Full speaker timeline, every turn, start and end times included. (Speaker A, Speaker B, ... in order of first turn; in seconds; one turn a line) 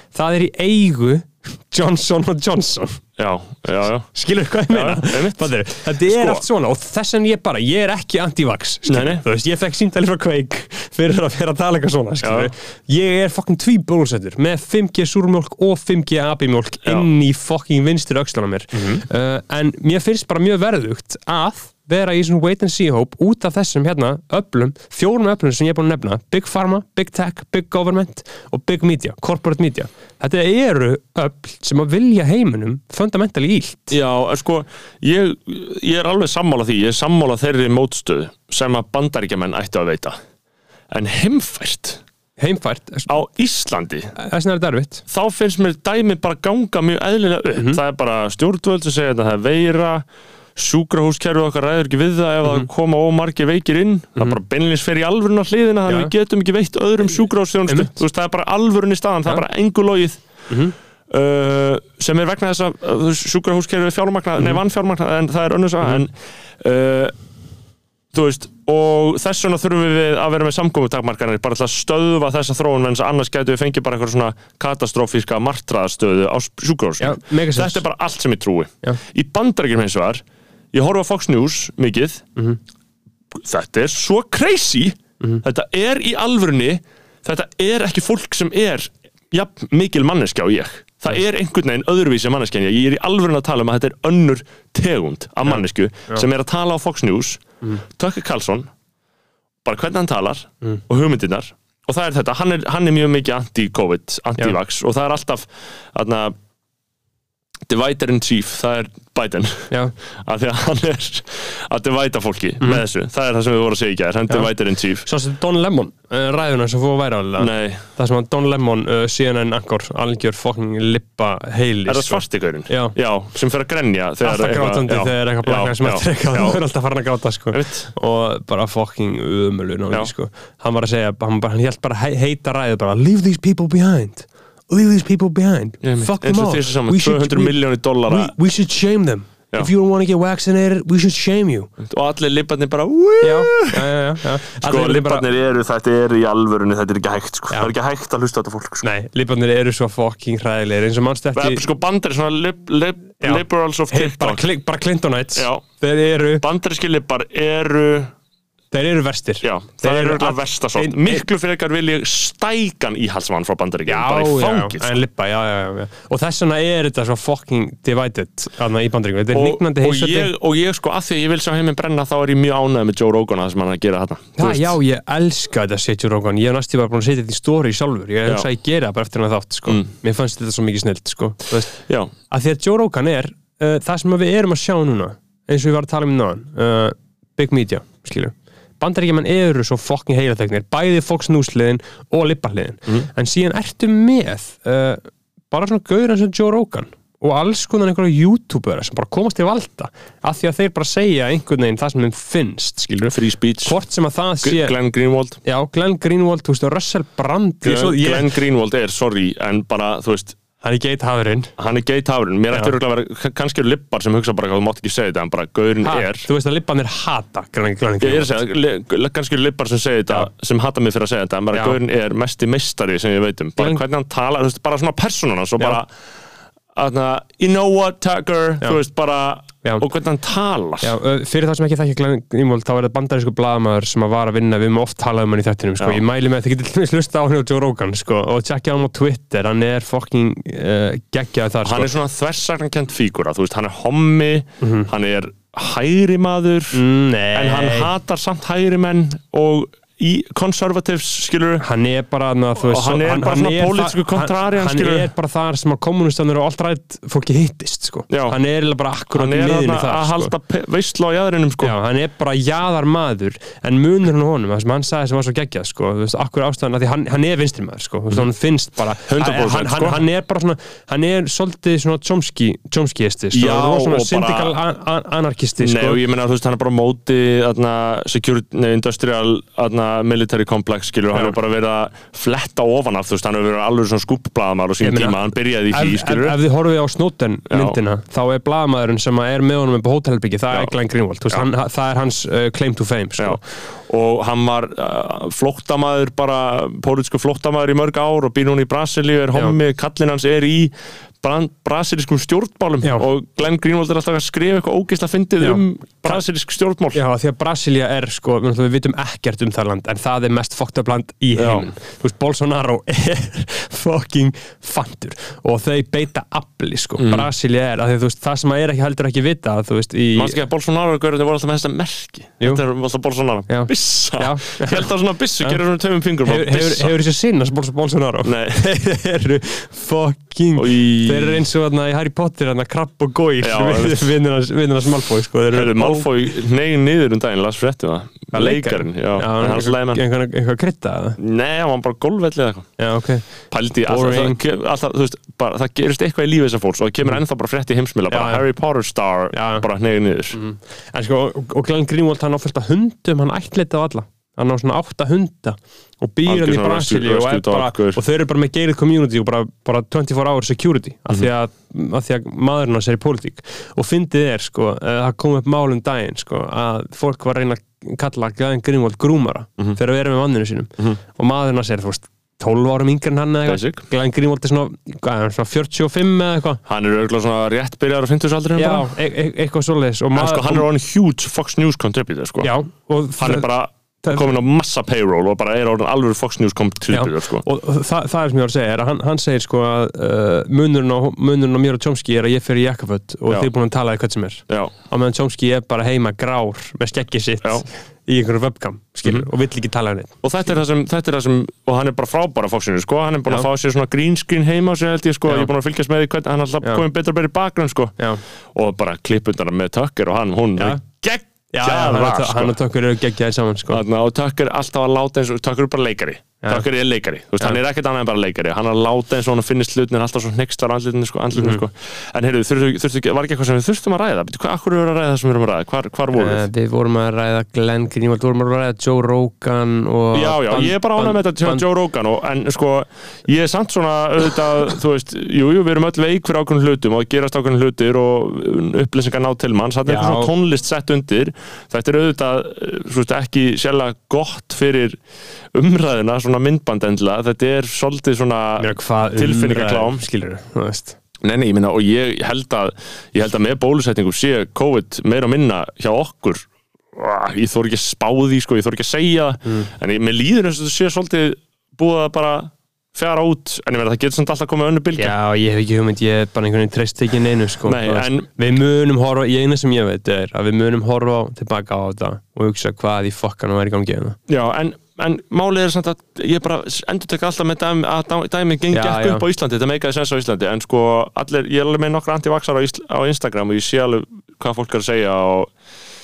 Speaker A: 0.1-3.0
Speaker B: 3.2-4.1
Speaker A: 4.1-34.0
Speaker B: 4.7-6.4
Speaker B: 8.9-9.2
Speaker B: 12.2-12.5
Speaker B: 18.7-19.0
Speaker B: 33.9-40.2
Speaker B: 40.9-42.0
Speaker A: 42.4-43.1
Speaker B: 43.1-44.1
Speaker A: 44.1-45.0
Speaker B: 45.1-60.2
Speaker A: 55.9-56.1
Speaker A: 57.7-58.0
Speaker A: 60.5-60.7
Speaker B: 61.1-67.2
Speaker B: 68.1-82.3
Speaker A: 77.0-77.8
Speaker B: 83.4-98.7
Speaker A: 95.5-96.2
Speaker B: 99.7-106.3
Speaker B: 107.7-115.1
Speaker A: 115.0-123.0
Speaker B: 117.4-117.9
Speaker B: 121.9-126.6
Speaker A: 124.2-141.7
Speaker B: 127.5-127.9
Speaker B: 135.8-138.3
Speaker B: 141.8-143.9
Speaker A: 143.2-145.3
Speaker B: 144.5-148.9
Speaker A: 148.8-151.7
Speaker B: 151.3-154.5
Speaker A: 153.2-156.4
Speaker B: 155.3-155.7
Speaker B: 156.4-158.1
Speaker A: 158.7-161.2
Speaker B: 159.4-165.0
Speaker A: 163.9-170.3
Speaker B: 169.3-174.8
Speaker A: 174.4-181.7
Speaker B: 179.7-179.9
Speaker B: 181.9-182.1
Speaker A: 182.3-204.8
Speaker B: 203.1-203.8
Speaker B: 204.4-205.4
Speaker A: 205.4-208.3
Speaker B: 207.6-210.4
Speaker A: 210.6-211.5
Speaker B: 211.6-216.3
Speaker A: 215.8-218.4
Speaker B: 218.0-225.9
Speaker A: 221.5-221.8
Speaker B: 226.8-230.9
Speaker A: 230.8-241.9
Speaker B: 241.6-246.8
Speaker A: 244.6-244.9
Speaker A: 246.7-247.9
Speaker B: 247.3-251.7
Speaker A: 251.6-260.3
Speaker B: 252.6-255.1
Speaker B: 258.1-258.4
Speaker B: 259.1-261.8
Speaker A: 261.6-276.0
Speaker B: 269.0-270.0
Speaker B: 273.3-274.6
Speaker B: 275.6-286.4
Speaker A: 284.8-293.4
Speaker B: 287.5-287.8
Speaker B: 293.2-307.0
Speaker A: 305.4-306.2
Speaker A: 306.9-320.4
Speaker B: 311.4-311.7
Speaker B: 317.0-317.3
Speaker B: 320.1-326.9
Speaker A: 323.5-324.9
Speaker A: 326.2-336.1
Speaker B: 328.2-328.6
Speaker B: 330.6-331.4
Speaker B: 333.4-334.1
Speaker B: 335.5-340.0
Speaker A: 338.3-341.2
Speaker B: 341.2-342.7
Speaker A: 342.8-344.4
Speaker B: 343.5-350.4
Speaker A: 348.1-348.4
Speaker A: 349.3-349.7
Speaker A: 350.3-376.6
Speaker B: 356.3-358.0
Speaker B: 373.5-373.8
Speaker B: 376.7-378.9
Speaker A: 378.6-380.7
Speaker B: 380.1-382.5
Speaker A: 382.4-383.5
Speaker B: 383.2-387.5
Speaker A: 384.0-384.3
Speaker A: 386.9-400.2
Speaker B: 400.2-408.0
Speaker A: 405.3-405.5
Speaker B: 408.5-412.6
Speaker A: 411.5-413.8
Speaker B: 413.7-426.5
Speaker A: 421.3-421.6
Speaker A: 426.1-431.6
Speaker B: 430.1-445.0
Speaker A: 439.9-440.3
Speaker B: 445.5-450.0
Speaker A: 448.6-451.0
Speaker B: 451.2-465.1
Speaker A: 465.0-474.2
Speaker B: 467.6-468.3
Speaker B: 474.3-485.5
Speaker A: 478.7-479.2